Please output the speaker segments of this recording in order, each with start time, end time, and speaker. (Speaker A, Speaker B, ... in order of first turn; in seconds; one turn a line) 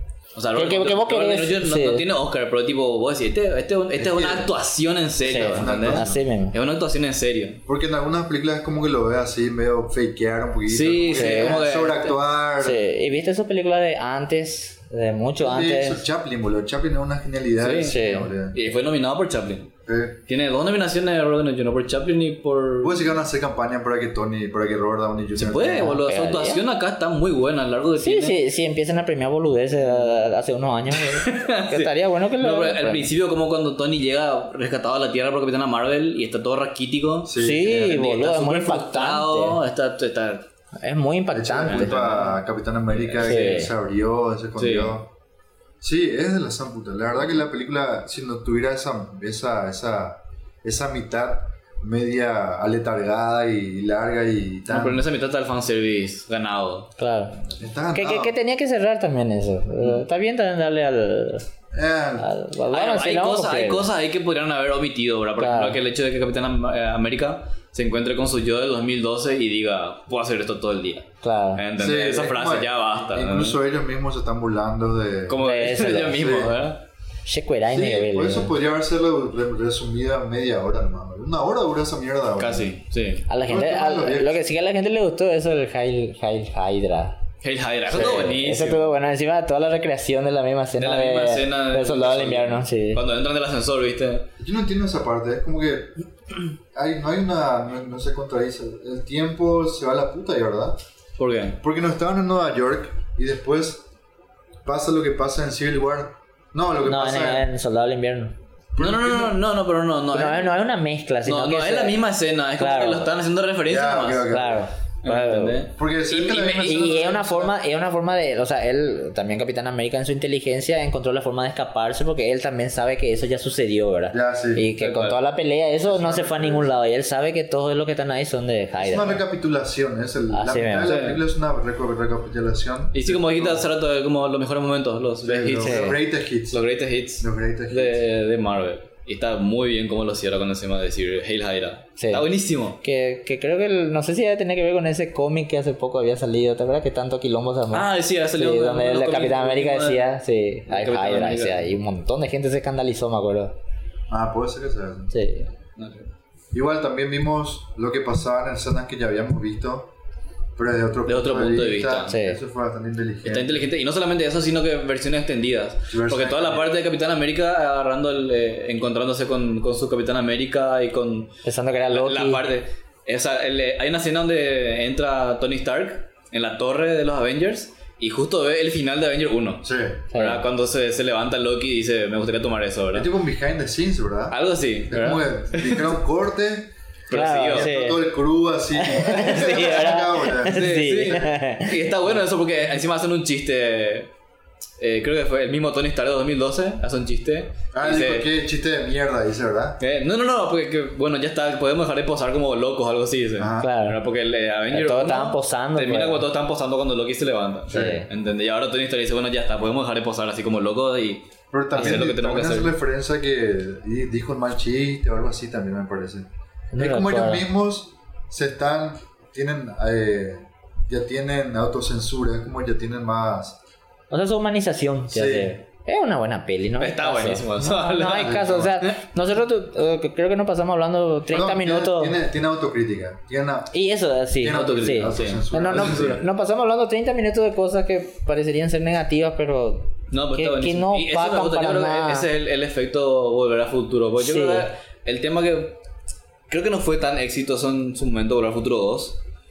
Speaker A: 0.3-7.6
Speaker B: 0.5-2.0
Speaker C: 4.0-4.5
Speaker C: 5.2-6.2
Speaker B: 5.3-6.6
Speaker C: 7.7-12.9
Speaker A: 10.7-12.1
Speaker B: 11.1-11.6
Speaker B: 12.6-16.0
Speaker C: 15.4-18.6
Speaker A: 17.6-19.7
Speaker B: 17.9-18.3
Speaker C: 19.9-20.2
Speaker A: 20.3-23.1
Speaker C: 22.8-26.0
Speaker A: 25.4-28.4
Speaker B: 25.7-26.6
Speaker B: 28.0-33.1
Speaker A: 29.9-30.2
Speaker A: 30.9-40.5
Speaker C: 37.2-37.9
Speaker B: 37.4-39.6
Speaker B: 40.8-42.0
Speaker C: 41.3-45.1
Speaker A: 41.6-42.4
Speaker A: 42.9-43.6
Speaker B: 43.2-43.7
Speaker A: 44.6-45.0
Speaker C: 45.8-55.1
Speaker A: 54.7-56.9
Speaker B: 57.0-57.4
Speaker C: 57.5-58.4
Speaker B: 58.0-61.5
Speaker C: 61.7-62.3
Speaker B: 62.2-63.9
Speaker A: 62.7-73.6
Speaker B: 65.4-65.8
Speaker B: 71.2-71.6
Speaker C: 71.8-75.4
Speaker A: 75.3-76.8
Speaker B: 75.4-76.2
Speaker C: 76.1-76.6
Speaker B: 77.3-78.5
Speaker C: 77.7-82.7
Speaker A: 82.4-83.3
Speaker B: 83.3-87.2
Speaker C: 83.5-84.4
Speaker A: 87.4-88.9
Speaker B: 87.9-93.0
Speaker A: 90.8-94.3
Speaker C: 94.4-95.9
Speaker C: 96.7-100.8
Speaker A: 101.2-101.6
Speaker C: 101.6-103.8
Speaker C: 104.7-107.5
Speaker B: 106.8-108.3
Speaker C: 108.8-109.4
Speaker A: 108.8-110.5
Speaker B: 110.1-112.0
Speaker A: 111.3-114.4
Speaker B: 112.6-113.1
Speaker C: 113.7-114.7
Speaker B: 114.3-115.7
Speaker A: 115.0-116.9
Speaker C: 115.7-117.5
Speaker B: 116.3-129.2
Speaker C: 124.1-124.6
Speaker A: 124.8-125.2
Speaker C: 125.8-126.7
Speaker C: 128.8-133.6
Speaker B: 130.3-130.9
Speaker A: 130.8-131.2
Speaker A: 132.9-142.8
Speaker C: 135.2-136.6
Speaker B: 135.6-136.0
Speaker C: 137.2-138.0
Speaker B: 142.0-142.3
Speaker B: 142.8-153.6
Speaker A: 147.7-150.0
Speaker A: 150.7-151.6
Speaker C: 154.1-155.1
Speaker B: 155.1-155.5
Speaker A: 155.8-156.1
Speaker C: 156.5-159.9
Speaker C: 160.6-163.7
Speaker A: 161.1-162.2
Speaker B: 162.1-162.4
Speaker A: 163.2-171.3
Speaker C: 165.9-166.7
Speaker B: 171.4-172.4
Speaker A: 171.9-183.1
Speaker C: 179.6-180.0
Speaker B: 180.1-180.4
Speaker C: 182.9-184.4
Speaker A: 184.3-185.9
Speaker C: 184.9-190.7
Speaker A: 187.1-187.7
Speaker B: 187.1-188.0
Speaker B: 188.8-191.8
Speaker A: 189.0-194.1
Speaker A: 194.8-198.3
Speaker C: 197.7-199.8
Speaker A: 199.8-212.7
Speaker C: 203.4-203.7
Speaker B: 203.6-204.0
Speaker B: 204.7-206.3
Speaker B: 207.7-208.1
Speaker C: 211.5-223.6
Speaker B: 211.8-212.0
Speaker B: 216.7-217.4
Speaker B: 224.1-232.2
Speaker C: 225.1-225.5
Speaker A: 226.8-229.0
Speaker C: 228.1-228.7
Speaker C: 231.3-233.7
Speaker B: 233.7-242.3
Speaker C: 234.4-236.2
Speaker A: 234.5-236.2
Speaker A: 240.1-245.8
Speaker B: 244.2-244.7
Speaker A: 246.5-249.2